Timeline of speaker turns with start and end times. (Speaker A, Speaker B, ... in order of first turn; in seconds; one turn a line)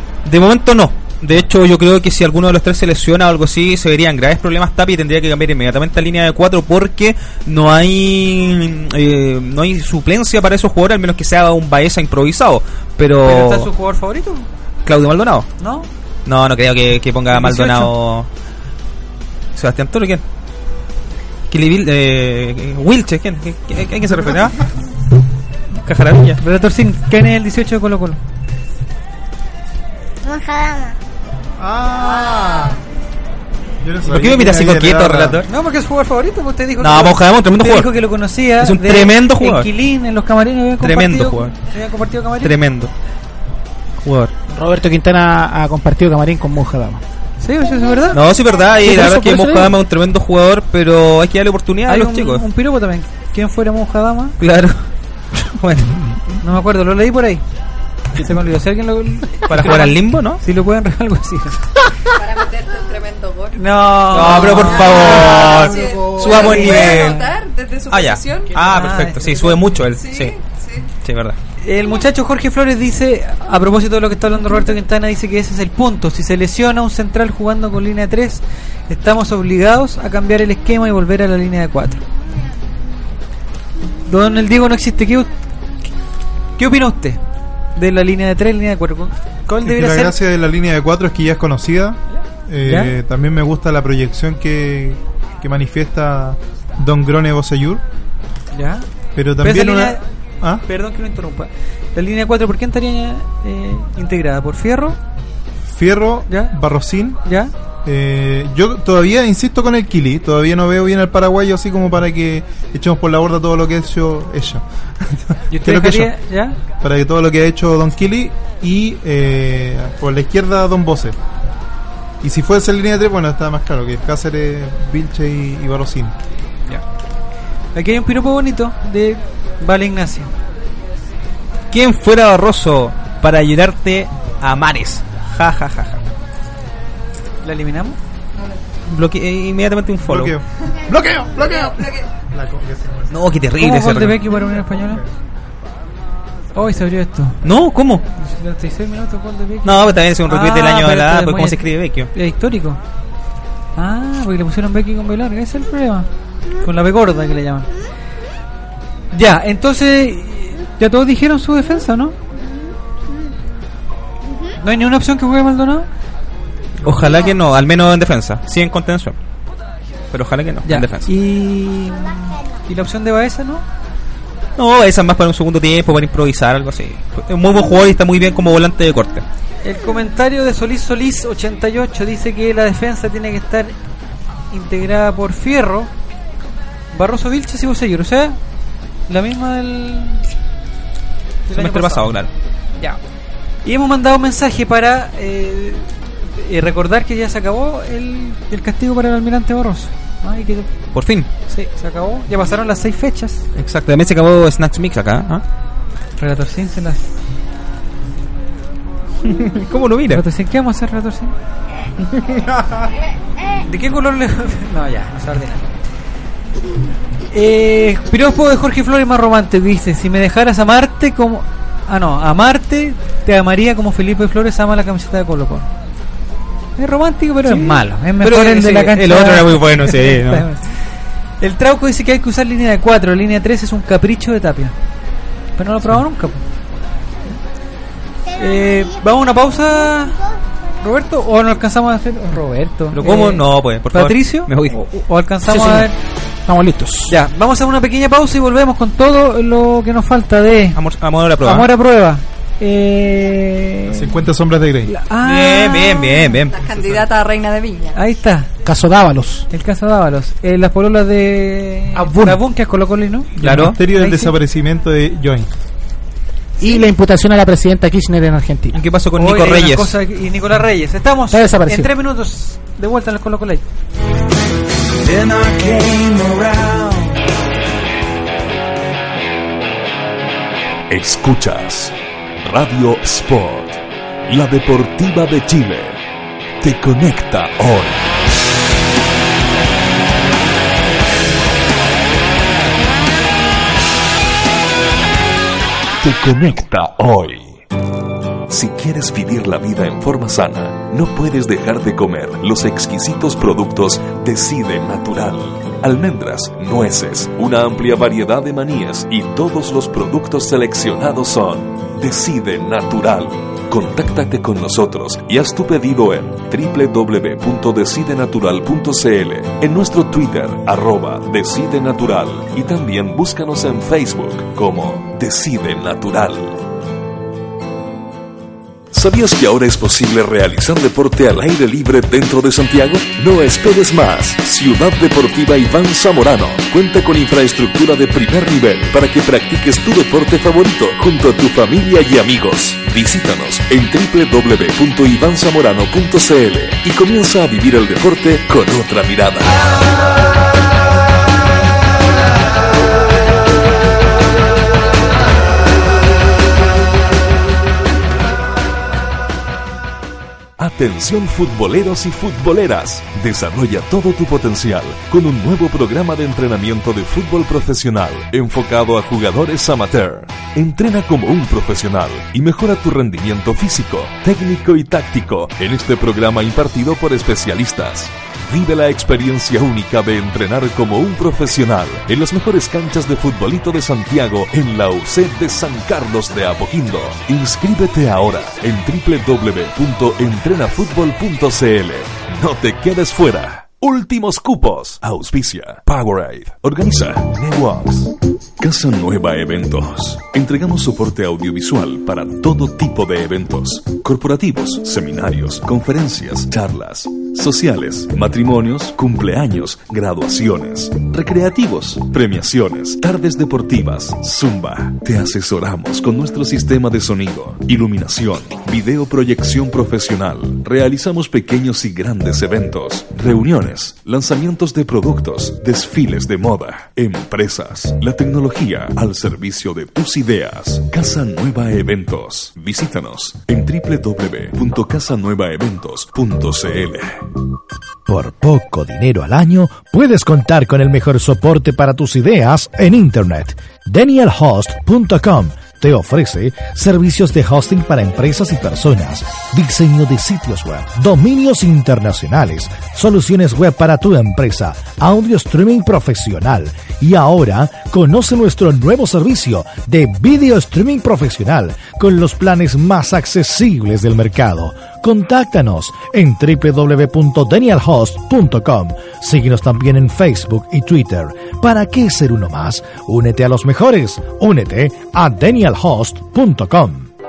Speaker A: 0.2-13.7
Speaker B: 13.2-14.5
Speaker A: 14.8-15.5
Speaker B: 15.6-15.9
Speaker A: 16.2-18.3
Speaker B: 17.3-17.9
Speaker A: 19.5-20.2
Speaker A: 21.5-24.6
Speaker A: 25.8-26.4
Speaker B: 26.4-28.2
Speaker C: 30.2-31.0
Speaker D: 31.6-32.8
Speaker D: 33.8-35.4
Speaker A: 34.0-35.5
Speaker B: 35.5-42.5
Speaker A: 36.8-37.9
Speaker A: 38.6-39.7
Speaker A: 40.8-41.5
Speaker A: 42.4-42.9
Speaker A: 44.0-44.3
Speaker E: 44.5-47.0
Speaker B: 47.4-48.2
Speaker C: 47.8-48.7
Speaker A: 48.1-52.4
Speaker E: 48.8-49.8
Speaker B: 51.9-54.4
Speaker A: 54.4-56.3
Speaker B: 56.4-57.4
Speaker B: 58.1-61.6
Speaker A: 59.5-60.4
Speaker F: 62.1-63.6
Speaker B: 63.5-65.6
Speaker A: 64.1-67.3
Speaker F: 64.1-68.5
Speaker B: 66.2-67.1
Speaker A: 67.9-70.3
Speaker B: 68.5-69.6
Speaker F: 69.9-70.9
Speaker A: 71.0-71.4
Speaker B: 71.6-82.0
Speaker B: 84.0-85.3
Speaker B: 86.6-87.2
Speaker B: 87.8-90.2
Speaker D: 89.6-97.8
Speaker B: 92.6-92.9
Speaker B: 98.5-98.8
Speaker D: 99.1-100.6
Speaker B: 99.4-100.0
Speaker B: 100.6-105.0
Speaker D: 105.7-107.2
Speaker B: 106.3-106.5
Speaker B: 107.2-107.5
Speaker D: 107.8-116.1
Speaker B: 115.5-116.6
Speaker D: 116.8-121.2
Speaker D: 122.2-126.1
Speaker B: 127.7-130.3
Speaker A: 131.7-136.0
Speaker B: 137.4-138.0
Speaker A: 138.9-140.3
Speaker D: 140.0-143.1
Speaker A: 143.1-144.2
Speaker B: 143.6-145.0
Speaker D: 144.4-145.0
Speaker B: 146.5-147.4
Speaker A: 147.4-148.0
Speaker B: 148.2-152.8
Speaker A: 149.6-152.1
Speaker B: 153.8-156.1
Speaker B: 156.6-157.7
Speaker B: 159.1-162.2
Speaker C: 162.3-163.2
Speaker C: 164.2-164.6
Speaker B: 164.6-165.9
Speaker A: 166.8-169.1
Speaker A: 170.1-171.1
Speaker B: 170.6-173.6
Speaker A: 174.6-179.2
Speaker B: 179.6-183.7
Speaker B: 184.5-185.9
Speaker B: 186.9-188.4
Speaker B: 189.1-190.2
Speaker B: 191.5-192.1
Speaker A: 191.5-192.3
Speaker B: 193.6-200.7
Speaker A: 200.9-201.3
Speaker B: 201.5-203.4
Speaker A: 203.5-205.4
Speaker B: 206.2-207.1
Speaker A: 209.2-210.2
Speaker B: 210.1-211.3
Speaker A: 212.2-212.4
Speaker B: 213.6-215.7
Speaker B: 217.3-225.7
Speaker B: 226.8-230.8
Speaker A: 227.4-230.4
Speaker B: 231.4-234.7
Speaker B: 235.6-236.4
Speaker C: 238.3-240.5
Speaker B: 238.4-240.2
Speaker B: 240.8-245.9
Speaker A: 242.9-244.8
Speaker E: 245.4-245.9
Speaker E: 246.4-247.1
Speaker B: 247.1-250.8
Speaker A: 250.7-251.7
Speaker B: 251.4-254.2
Speaker D: 253.9-254.9
Speaker B: 254.8-256.4
Speaker A: 255.2-256.6
Speaker F: 256.5-258.0
Speaker B: 257.9-258.5
Speaker E: 258.6-259.5
Speaker B: 259.5-264.3
Speaker E: 261.9-262.4
Speaker D: 263.4-265.5
Speaker A: 263.4-263.8
Speaker E: 266.6-268.8
Speaker A: 268.7-269.9
Speaker B: 269.2-273.6
Speaker E: 271.3-271.9
Speaker G: 280.9-286.0
Speaker G: 286.6-288.0
Speaker G: 296.0-297.6
Speaker G: 298.5-326.6
Speaker G: 328.9-349.8
Speaker G: 360.6-437.2
Speaker H: 438.1-477.1